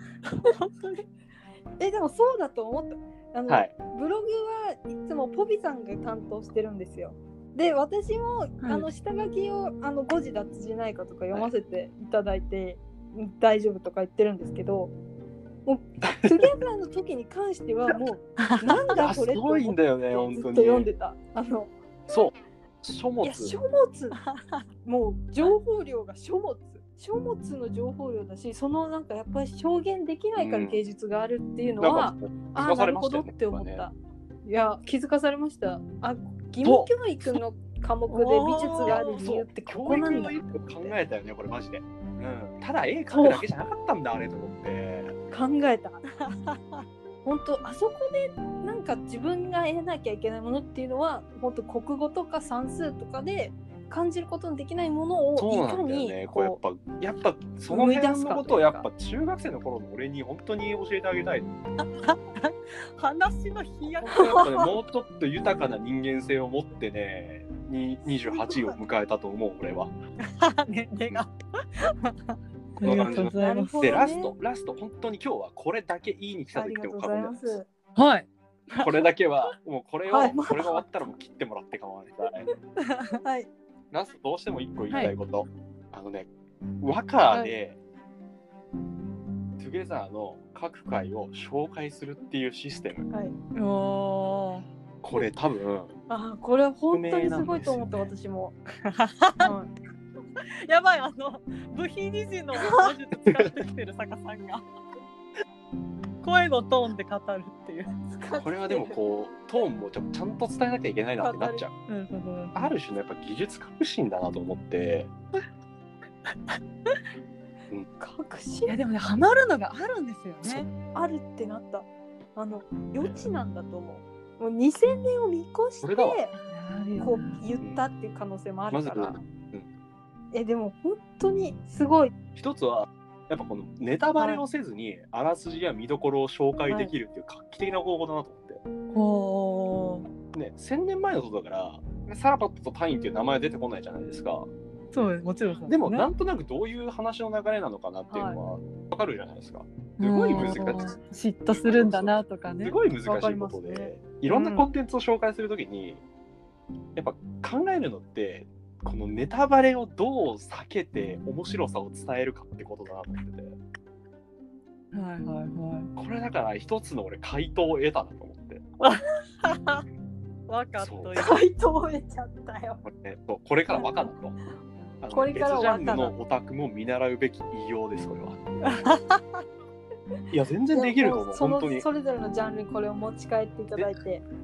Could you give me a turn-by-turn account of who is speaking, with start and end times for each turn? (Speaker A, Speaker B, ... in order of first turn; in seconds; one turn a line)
Speaker A: 0.3-1.0
Speaker B: 1.8-14.9
Speaker A: 8.6-8.9
Speaker B: 15.7-21.7
Speaker C: 16.0-16.5
Speaker A: 18.4-18.9
Speaker C: 18.9-20.9
Speaker C: 22.1-23.6
Speaker B: 23.2-24.2
Speaker A: 24.2-24.6
Speaker B: 24.9-41.0
Speaker C: 30.4-30.8
Speaker C: 31.8-33.9
Speaker C: 36.6-37.3
Speaker A: 38.1-39.3
Speaker C: 38.8-45.2
Speaker B: 43.1-43.5
Speaker B: 45.3-46.0
Speaker A: 46.2-46.8
Speaker B: 47.2-56.6
Speaker C: 55.4-61.5
Speaker B: 57.7-58.9
Speaker A: 61.8-64.7
Speaker C: 64.0-69.9
Speaker B: 64.2-64.7
Speaker B: 68.3-68.7
Speaker A: 70.2-73.8
Speaker C: 72.8-77.5
Speaker B: 73.4-74.3
Speaker B: 76.5-77.7
Speaker A: 78.0-79.1
Speaker C: 78.8-82.5
Speaker B: 80.1-80.8
Speaker A: 82.9-83.2
Speaker B: 83.2-83.5
Speaker C: 83.9-86.3
Speaker C: 86.8-87.8
Speaker C: 89.6-93.1
Speaker B: 93.1-93.3
Speaker A: 93.5-94.7
Speaker C: 95.0-96.0
Speaker B: 96.1-98.5
Speaker C: 96.9-97.9
Speaker A: 98.8-99.5
Speaker B: 99.4-99.7
Speaker A: 100.4-104.6
Speaker B: 102.6-102.9
Speaker A: 106.2-108.0
Speaker B: 108.1-109.0
Speaker C: 108.4-111.7
Speaker B: 111.2-111.7
Speaker A: 111.9-112.6
Speaker C: 112.5-115.1
Speaker A: 116.5-117.0
Speaker B: 118.0-118.8
Speaker A: 118.7-120.7
Speaker C: 120.4-120.7
Speaker B: 120.9-126.3
Speaker C: 125.8-126.2
Speaker A: 126.4-127.4
Speaker B: 127.0-129.2
Speaker C: 128.7-129.7
Speaker B: 130.3-132.1
Speaker C: 132.4-138.6
Speaker A: 138.9-140.1
Speaker C: 140.3-144.5
Speaker A: 144.9-146.1
Speaker C: 145.7-150.9
Speaker B: 148.1-148.4
Speaker A: 150.0-152.8
Speaker C: 151.5-156.0
Speaker B: 153.1-153.9
Speaker A: 154.3-154.6
Speaker C: 157.0-163.6
Speaker A: 164.9-165.9
Speaker C: 166.0-168.6
Speaker A: 168.8-169.8
Speaker A: 170.5-171.4
Speaker C: 170.8-171.2
Speaker B: 171.2-172.8
Speaker C: 172.8-174.4
Speaker C: 175.0-178.4
Speaker B: 175.1-176.1
Speaker A: 178.7-179.2
Speaker C: 180.3-181.9
Speaker B: 180.7-184.2